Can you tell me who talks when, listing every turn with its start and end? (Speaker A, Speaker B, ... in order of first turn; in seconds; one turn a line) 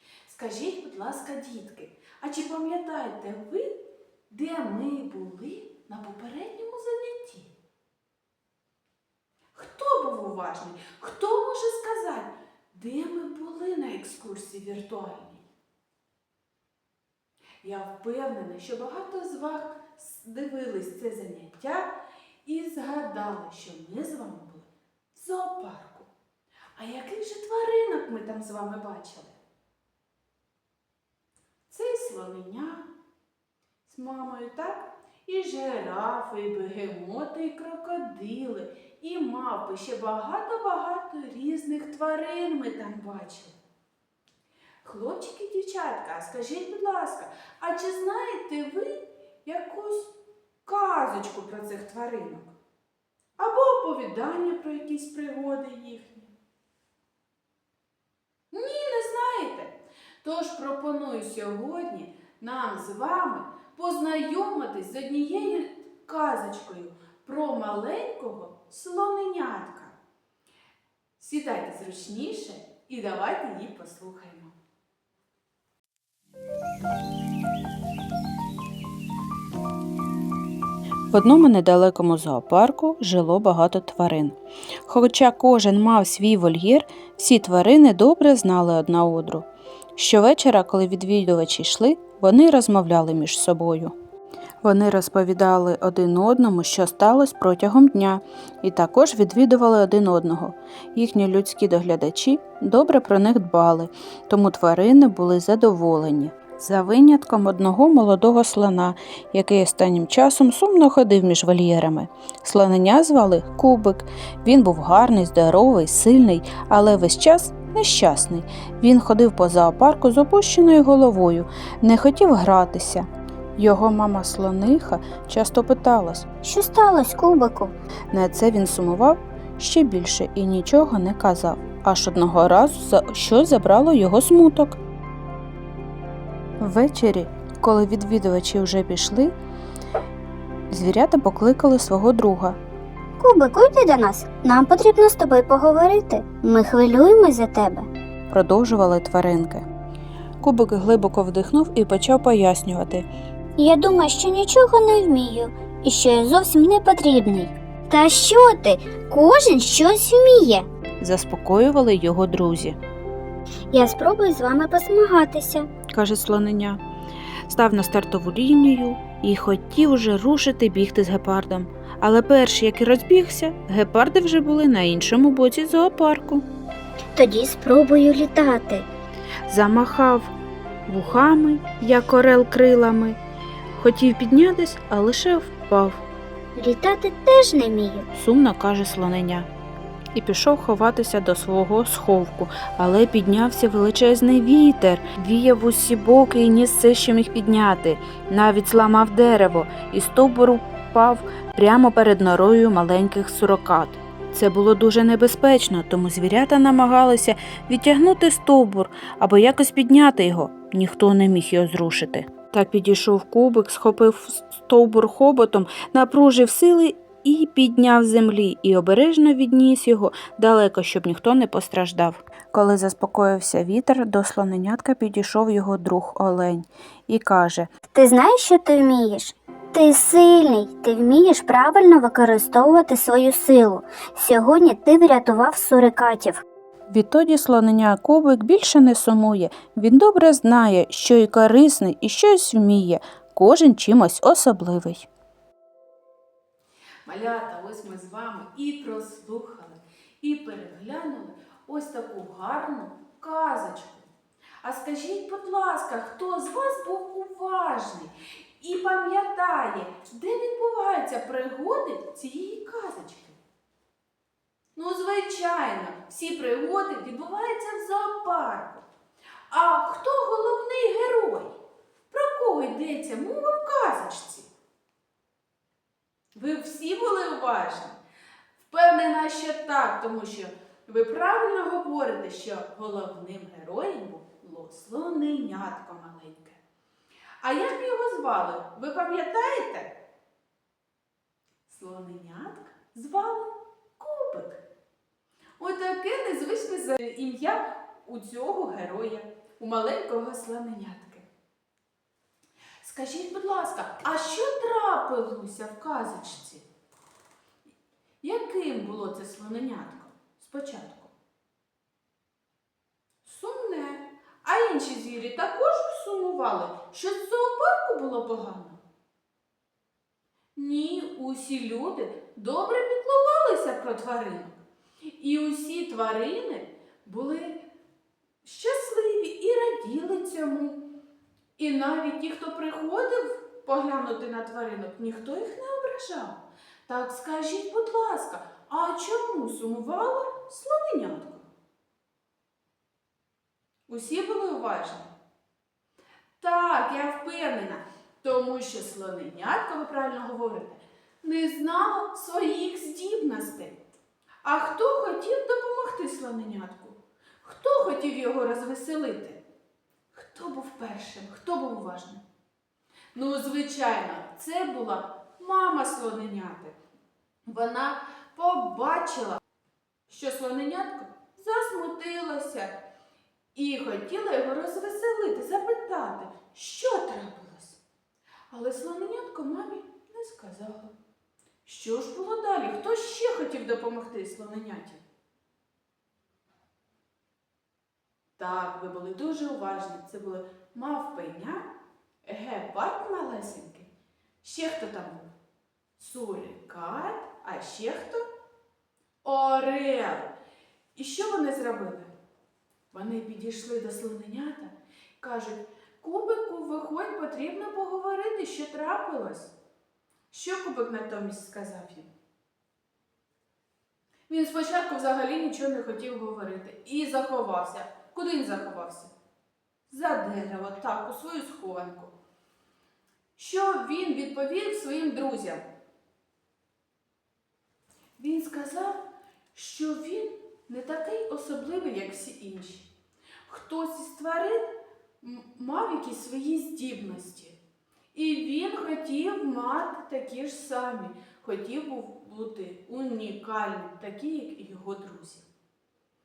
Speaker A: 0.3-3.7
Speaker A: 4.3-7.5
Speaker A: 9.5-15.4
Speaker A: 17.6-21.9
Speaker A: 22.4-26.1
Speaker A: 26.8-29.4
Speaker A: 31.7-32.9
Speaker A: 33.9-43.5
Speaker A: 44.8-50.1
Speaker A: 50.6-52.5
Speaker A: 53.4-56.3
Speaker A: 58.5-70.0
Speaker A: 71.2-74.5
Speaker B: 81.1-84.4
Speaker B: 84.9-93.9
Speaker B: 94.6-123.0
Speaker B: 123.6-126.2
Speaker C: 126.4-127.8
Speaker B: 128.1-134.8
Speaker B: 136.6-139.3
Speaker B: 140.7-142.6
Speaker C: 143.2-147.9
Speaker B: 148.3-149.6
Speaker B: 150.4-153.1
Speaker C: 153.6-160.7
Speaker B: 161.0-162.8
Speaker C: 163.7-165.7
Speaker B: 165.9-166.8
Speaker B: 167.5-176.4
Speaker C: 177.2-178.9
Speaker B: 179.5-180.3
Speaker B: 180.9-183.2
Speaker B: 183.8-186.0
Speaker C: 186.6-188.1
Speaker B: 188.2-189.5
Speaker B: 190.1-227.7
Speaker C: 227.9-236.4
Speaker B: 236.9-245.1
Speaker A: 247.1-254.1
Speaker A: 254.6-263.4
Speaker A: 264.8-268.9
Speaker A: 269.5-271.6
Speaker A: 272.1-274.5
Speaker A: 276.3-278.0
Speaker A: 278.6-286.6
Speaker A: 287.4-289.9
Speaker A: 291.7-294.6
Speaker A: 295.6-301.3
Speaker A: 302.8-306.6
Speaker A: 308.2-311.1
Speaker A: 313.2-318.8
Speaker A: 320.6-324.6
Speaker A: 325.2-327.6
Speaker A: 328.4-330.8
Speaker A: 331.6-341.5
Speaker A: 343.9-345.1
Speaker A: 346.4-353.8
Speaker A: 354.4-359.4
Speaker A: 360.1-362.2
Speaker A: 363.1-366.8
Speaker A: 367.4-369.4
Speaker A: 370.1-372.7
Speaker A: 373.6-377.8
Speaker A: 378.5-380.9
Speaker A: 381.6-385.0
Speaker A: 388.4-391.6
Speaker A: 392.2-393.9
Speaker A: 394.4-395.3
Speaker A: 396.0-398.2
Speaker A: 399.2-400.3
Speaker A: 400.9-402.1
Speaker A: 402.9-409.5
Speaker A: 410.3-412.1
Speaker A: 414.3-419.1
Speaker A: 419.9-422.1
Speaker A: 423.4-425.6
Speaker A: 428.2-429.0
Speaker A: 429.5-432.9
Speaker A: 433.5-434.6
Speaker A: 435.2-437.6
Speaker A: 438.1-445.5